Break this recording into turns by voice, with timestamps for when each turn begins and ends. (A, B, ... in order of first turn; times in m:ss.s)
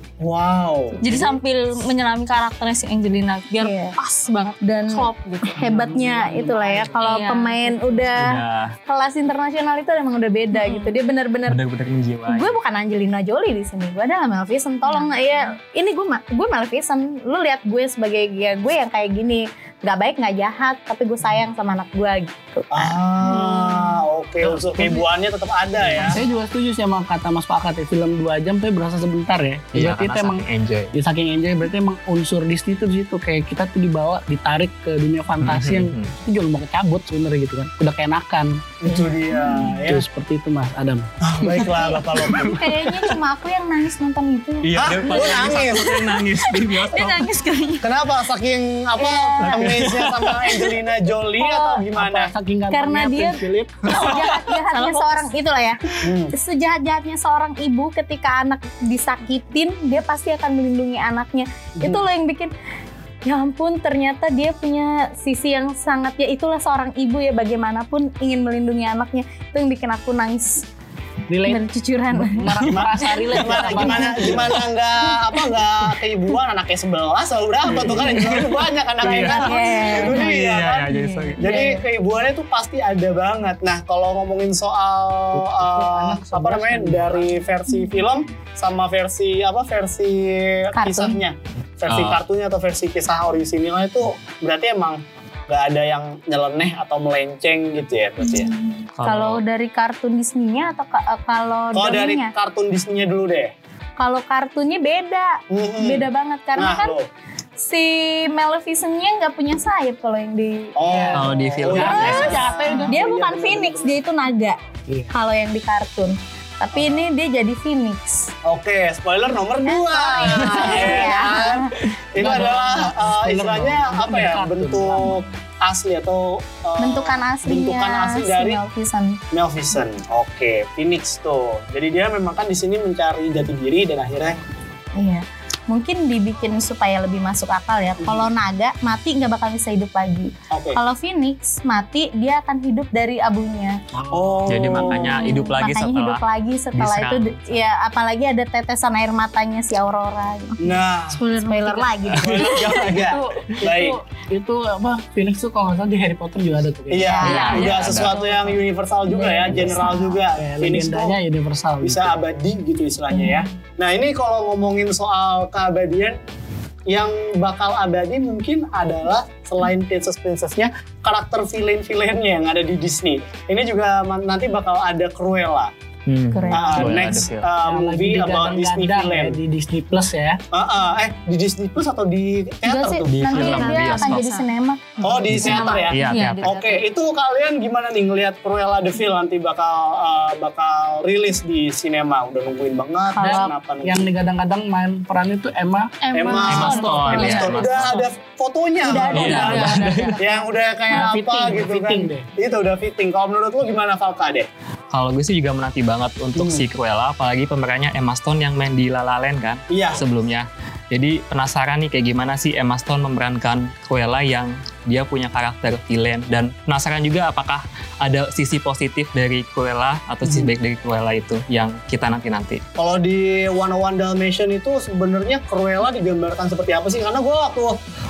0:00.2-0:01.4 A
0:01.0-0:05.7 B
0:03.6-0:04.0 C
0:04.6-0:11.6 C
0:05.6-0:07.0 D
0:07.0-0:08.2 B
0:08.2-0:08.7 E
0:10.5-0:10.9 B
0:11.5-0:12.6 E
0:12.3-0:23.9 C
0:14.9-0:15.4 B
0:22.7-0:26.2 A
0:24.4-0:24.9 D
0:25.8-0:38.8 D
0:29.7-0:31.0 E
0:35.4-0:36.2 E
0:38.8-0:40.1 A
0:39.8-0:41.6 D
0:41.2-0:42.7 A
0:41.7-0:45.7 C
0:42.4-0:42.8 D
0:44.6-0:47.3 E
0:44.8-0:46.0 A
0:46.3-0:47.9 B
0:47.8-0:52.3 A
0:49.0-0:49.9 C
0:49.5-0:50.5 E
0:51.4-0:51.8 C
0:51.9-0:54.2 D
0:52.7-1:02.5 C
0:53.9-0:55.3 B
0:56.0-0:56.3 A
1:03.2-1:10.7 C
1:11.3-1:14.6 D
1:11.4-1:14.5 C
1:12.7-1:38.5 A
1:17.7-1:21.6 E
1:19.2-1:20.3 C
1:21.2-1:21.8 C
1:25.3-1:27.3 D
1:30.8-1:31.2 C
1:31.9-1:32.2 E
1:38.2-1:42.3 C
1:39.0-1:39.4 E
1:41.8-1:43.5 A
1:44.0-1:47.0 C
1:45.5-1:47.1 A
1:47.6-1:50.8 C
1:50.8-1:54.0 A
1:50.9-1:53.1 D
1:51.1-1:52.4 E
1:51.8-1:54.6 C
1:54.9-1:55.1 D
1:55.1-1:58.3 C
1:56.7-1:57.0 A
1:58.4-2:08.6 A
1:59.6-2:01.7 C
2:02.2-2:05.2 D
2:06.8-2:09.2 C
2:09.3-2:14.4 A
2:15.0-2:23.8 C
2:20.5-2:20.8 A
2:24.0-2:24.5 D
2:24.1-2:25.2 A
2:24.5-2:27.5 E
2:25.1-2:30.6 C
2:25.2-2:25.5 B
2:30.6-2:31.2 A
2:31.1-2:33.3 B
2:31.4-2:32.4 C
2:32.1-2:33.7 E
2:32.2-2:34.0 A
2:33.1-2:37.8 D
2:36.9-2:41.2 A
2:37.0-2:37.6 C
2:37.2-2:38.6 B
2:37.4-2:38.2 E
2:39.1-2:40.2 C
2:39.5-2:39.8 D
2:40.4-2:42.2 D
2:41.8-2:46.2 A
2:43.2-2:43.4 C
2:46.9-2:55.7 A
2:56.1-2:57.5 E
2:56.3-2:57.0 C
2:56.5-2:59.4 A
2:57.6-3:00.4 D
3:00.5-3:03.5 A
3:02.6-3:05.4 C
3:03.1-3:04.3 E
3:03.4-3:04.5 B
3:05.0-3:14.1 A
3:05.3-3:06.5 E
3:05.4-3:06.8 B
3:13.1-3:13.5 C
3:13.2-3:16.0 D
3:16.0-3:18.0 B
3:16.1-3:24.5 A
3:16.4-3:18.0 E
3:16.5-3:17.2 D
3:18.8-3:20.5 C
3:18.9-3:20.3 B
3:19.1-3:20.2 E
3:20.9-3:22.3 D
3:24.9-3:42.6 E
3:26.4-3:26.6 A
3:29.7-3:30.0 A
3:42.8-3:47.8 A